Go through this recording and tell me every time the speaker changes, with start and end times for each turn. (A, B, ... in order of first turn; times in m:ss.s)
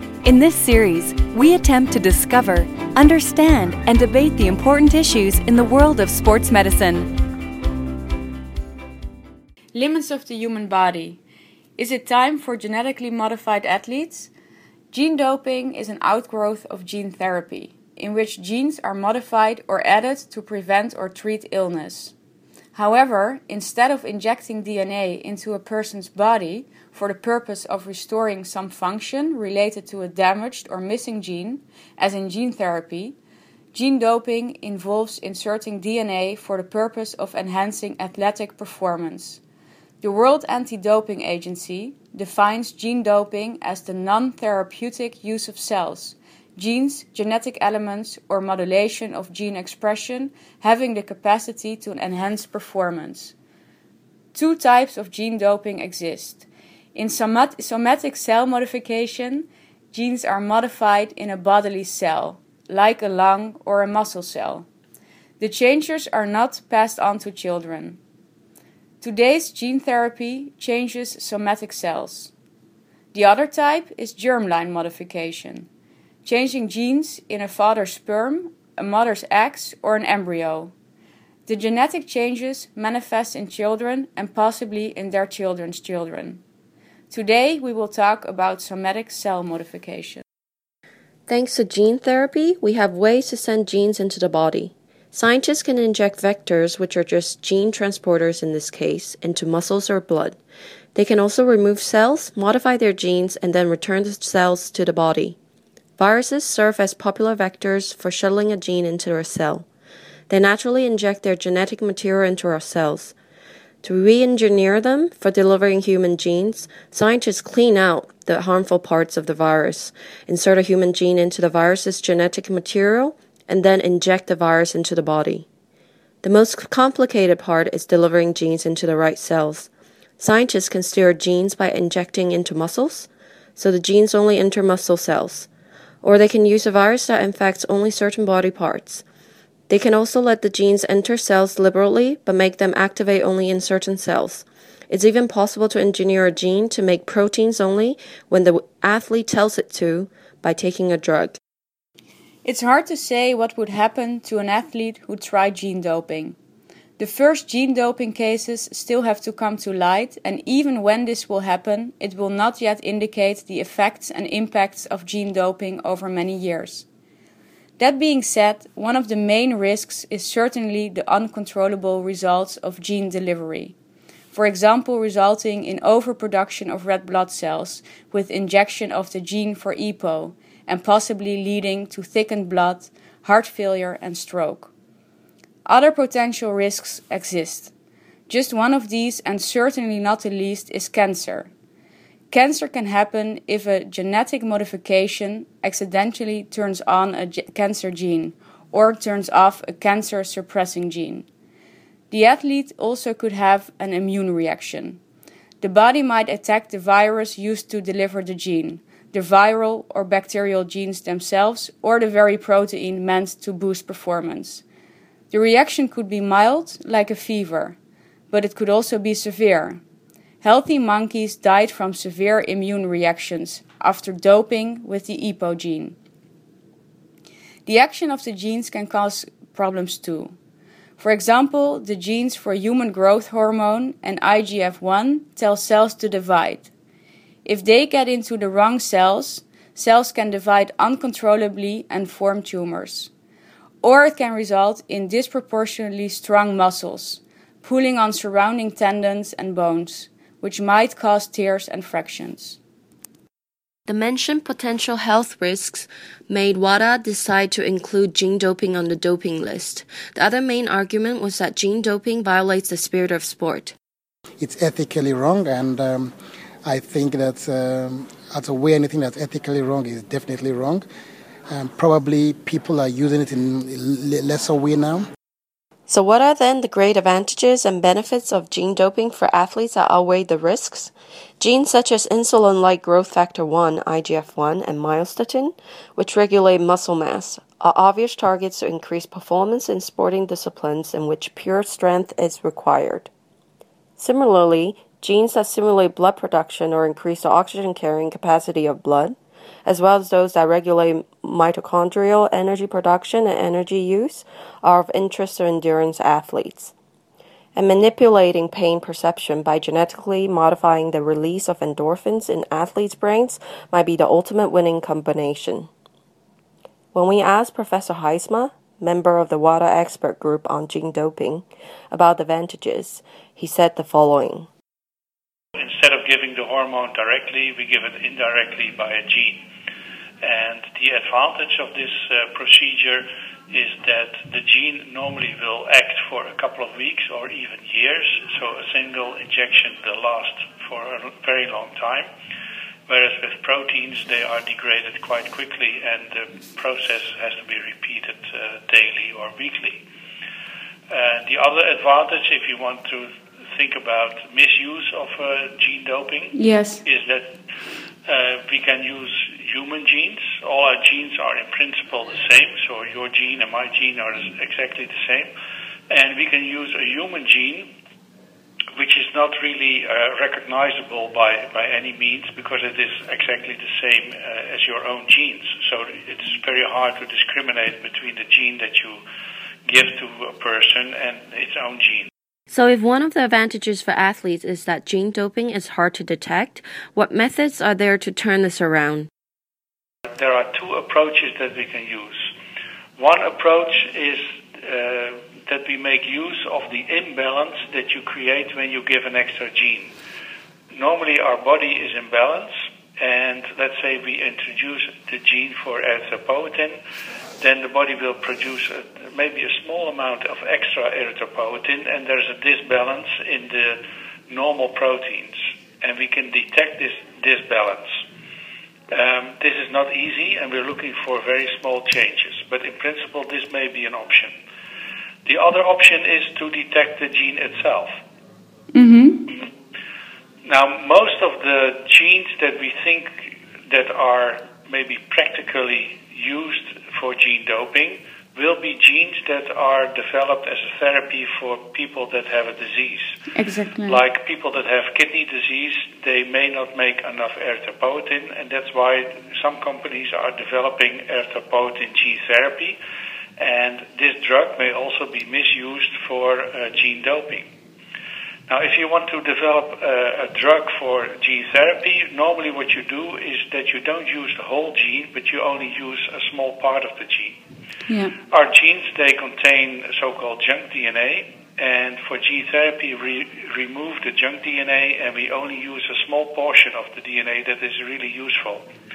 0:00.2-0:07.1 A
0:09.7-0:11.2 B
0:11.8-0:14.3 B
0:14.9-0:22.1 B
0:22.7-0:33.2 B
0:33.7-0:39.4 B
0:40.0-0:53.3 B
0:54.3-1:04.6 B
1:05.4-1:08.0 B
1:09.0-1:12.3 B
1:13.1-1:15.7 B
1:16.2-1:20.7 B
1:21.4-1:26.4 B
1:27.1-1:30.2 B
1:31.3-1:40.4 C
1:40.9-1:45.4 C
1:46.0-1:49.6 C
1:50.3-1:53.1 C
1:53.8-2:05.4 C
2:06.2-2:15.5 C
2:16.0-2:19.0 C
2:19.7-2:31.4 C
2:32.4-2:36.4 B
2:37.0-2:46.8 B
2:47.8-2:53.7 B
2:54.3-3:04.7 B
3:05.6-3:07.7 B
3:08.3-3:11.5 B
3:12.3-3:21.2 B
3:22.1-3:25.0 B
3:25.6-3:34.6 B
3:35.3-3:37.8 B
3:38.3-3:39.8 B
3:40.4-3:46.0 B
3:47.6-3:50.3 B
3:51.0-3:56.7 B
3:57.4-4:03.1 B
4:03.8-4:12.6 B
4:13.9-4:23.7 C
4:24.4-4:26.1 D
4:26.6-4:30.8 D
4:31.5-4:35.0 D
4:35.9-4:53.1 C
4:54.0-5:06.7 C
5:07.5-5:15.7 C
5:16.9-5:24.5 C
5:25.6-5:29.4 E
5:30.2-5:42.1 E
5:42.9-5:49.8 E
5:50.9-5:57.3 E
5:56.3-5:56.8 B
5:58.1-6:05.3 E
6:05.9-6:07.7 E
6:08.8-6:19.0 E
6:19.6-6:22.1 E
6:22.5-6:29.1 C
6:30.1-6:32.3 E
6:33.0-6:39.9 E
6:40.7-6:46.8 E
6:47.4-6:58.0 E
6:58.9-7:04.3 E
7:05.2-7:08.0 E
7:08.7-7:09.2 B
7:10.4-7:23.2 E
7:23.3-7:24.0 B
7:23.8-7:32.8 E
7:33.4-7:37.5 E
7:38.5-7:47.4 E
7:47.9-7:48.1 B
7:48.3-7:58.6 E